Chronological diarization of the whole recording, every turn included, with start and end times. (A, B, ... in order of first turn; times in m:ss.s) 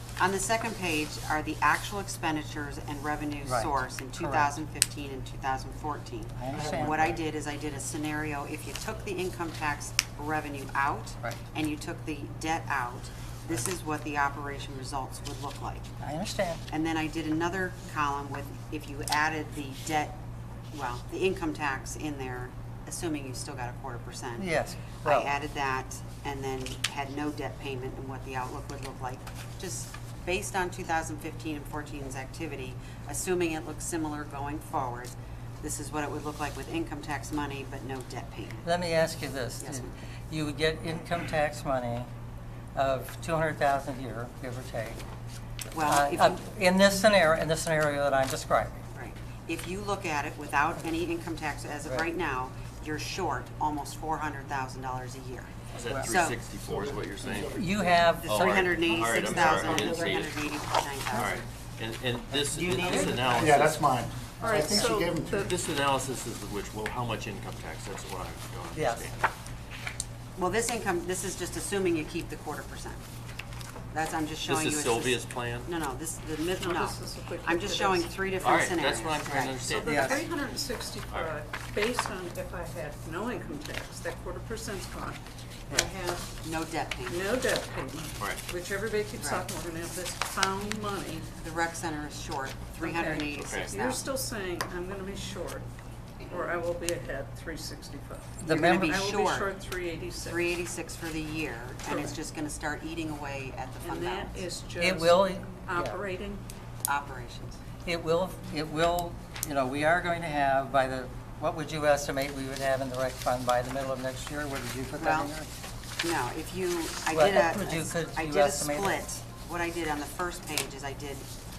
0:00.2-0:15.9 A
0:03.4-0:04.5 B
0:06.4-0:07.1 B
0:06.5-0:07.2 C
0:16.0-0:16.6 B
0:16.7-0:20.2 A
0:20.7-0:24.5 A
0:24.4-0:25.3 B
0:25.0-0:38.6 A
0:38.6-0:42.1 B
0:39.6-0:39.9 A
0:42.7-0:45.0 B
0:45.7-0:46.4 A
0:45.8-0:48.8 B
0:48.9-0:56.4 A
0:55.7-0:57.6 D
0:56.6-0:57.9 C
0:57.5-0:59.8 B
0:57.9-1:01.4 A
0:58.2-1:00.4 D
0:59.2-1:00.1 C
1:01.1-1:03.8 D
1:02.5-1:03.7 B
1:03.3-1:05.5 C
1:04.4-1:05.0 B
1:04.4-1:05.5 E
1:05.4-1:09.3 D
1:08.7-1:09.1 B
1:10.4-1:13.0 A
1:13.9-1:19.6 A
1:14.4-1:15.7 D
1:16.6-1:18.2 E
1:18.4-1:20.2 D
1:19.6-1:26.3 E
1:19.8-1:20.2 B
1:26.4-1:27.2 A
1:27.1-1:31.3 E
1:29.2-1:29.4 A
1:31.4-1:34.0 A
1:32.8-1:35.6 E
1:33.4-1:33.7 D
1:36.3-1:40.4 E
1:38.4-1:39.0 B
1:38.4-1:39.5 A
1:40.2-1:44.4 A
1:43.8-1:46.4 E
1:44.8-1:46.0 B
1:46.8-1:47.6 A
1:47.8-1:55.5 B
1:55.0-1:55.3 A
1:56.0-2:01.3 A
1:57.1-1:59.0 B